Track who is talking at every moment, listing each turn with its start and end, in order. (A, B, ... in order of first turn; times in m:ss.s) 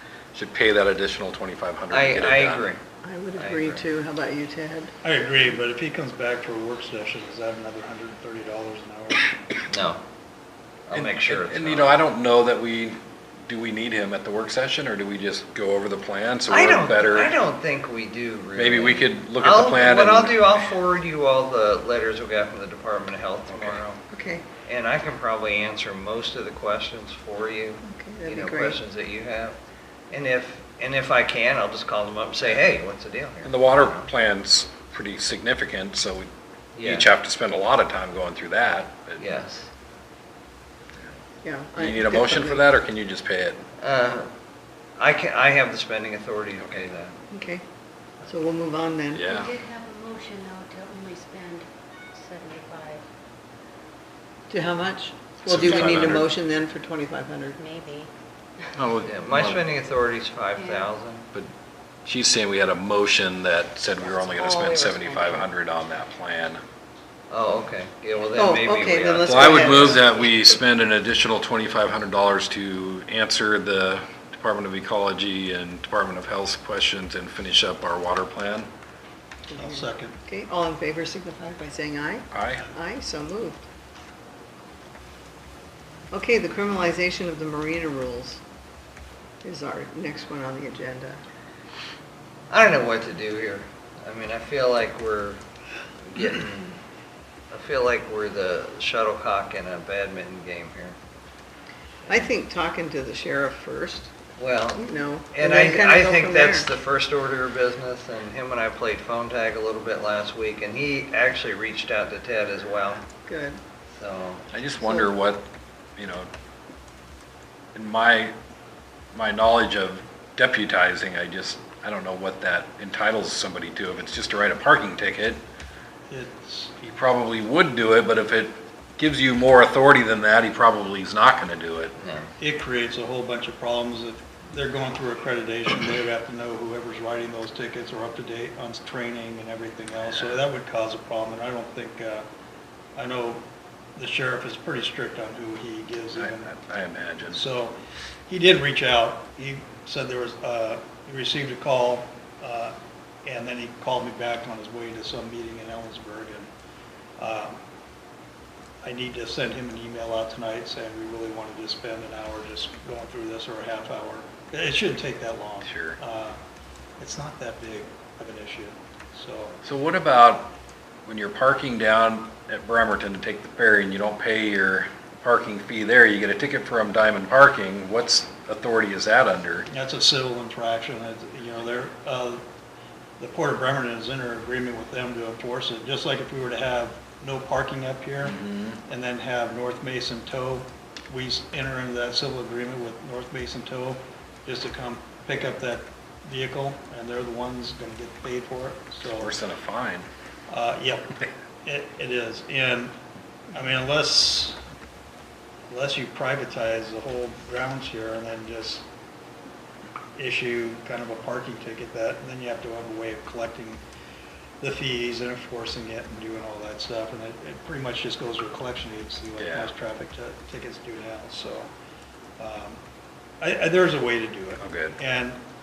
0:00.3-0:02.7 A
0:01.9-0:02.8 B
0:03.0-0:04.9 C
0:03.3-0:03.8 B
0:05.0-0:09.3 D
0:09.7-0:10.0 B
0:10.9-0:12.0 B
0:10.9-0:17.3 A
0:16.5-0:24.0 B
0:18.6-0:20.5 A
0:23.5-0:23.8 A
0:24.1-0:24.4 C
0:24.6-0:29.6 B
0:27.8-0:28.8 C
0:30.1-0:34.0 B
0:33.4-0:36.3 A
0:36.7-0:37.1 B
0:36.8-0:39.2 A
0:39.2-0:39.7 B
0:41.4-0:42.6 C
0:41.8-0:43.6 A
0:43.8-0:44.3 B
0:45.0-0:47.2 B
0:47.3-0:47.6 C
0:48.2-0:49.2 C
0:49.1-0:49.5 A
0:49.2-0:53.0 E
0:54.5-0:57.6 C
0:55.4-0:56.2 A
0:55.6-0:56.2 E
0:57.6-0:58.1 E
0:58.8-0:59.6 A
0:59.0-1:01.3 B
1:00.6-1:00.9 E
1:02.0-1:06.6 A
1:04.0-1:05.4 E
1:07.3-1:10.0 B
1:08.3-1:10.0 C
1:09.2-1:18.7 A
1:19.5-1:23.6 C
1:19.6-1:20.2 D
1:22.3-1:22.7 A
1:26.1-1:28.4 C
1:29.4-1:31.2 C
1:32.5-1:35.4 B
1:36.0-1:36.8 B
1:37.5-1:41.0 B
1:42.1-1:44.1 C
1:44.4-1:53.0 B
1:44.8-1:46.7 C
1:53.2-1:53.6 C
1:54.0-1:54.4 B
1:54.5-1:55.4 A
1:56.0-1:56.3 A
1:57.7-1:58.3 A
1:59.1-2:05.4 A
2:06.1-2:06.8 D
2:06.8-2:11.9 A
2:12.0-2:12.3 B
2:12.4-2:22.2 D
2:23.0-2:23.4 D
2:24.0-2:26.5 D
2:26.2-2:27.4 A
2:27.3-2:27.7 D
2:28.3-2:32.7 D
2:33.2-2:36.5 D
2:37.2-2:37.6 D
2:38.8-2:46.4 D
2:45.6-2:46.0 A
2:47.0-2:49.6 D
2:49.6-2:50.5 A
2:51.0-2:59.7 A
2:59.7-3:02.4 D
3:03.2-3:19.4 D
3:08.2-3:08.8 A
3:19.2-3:20.1 A
3:20.5-3:22.9 D
3:23.5-3:24.6 D
3:25.7-3:28.8 D
3:30.2-3:33.8 D
3:34.6-3:41.7 D
3:39.4-3:39.7 A
3:42.4-3:42.8 D
3:43.4-3:45.4 D
3:44.6-3:45.0 A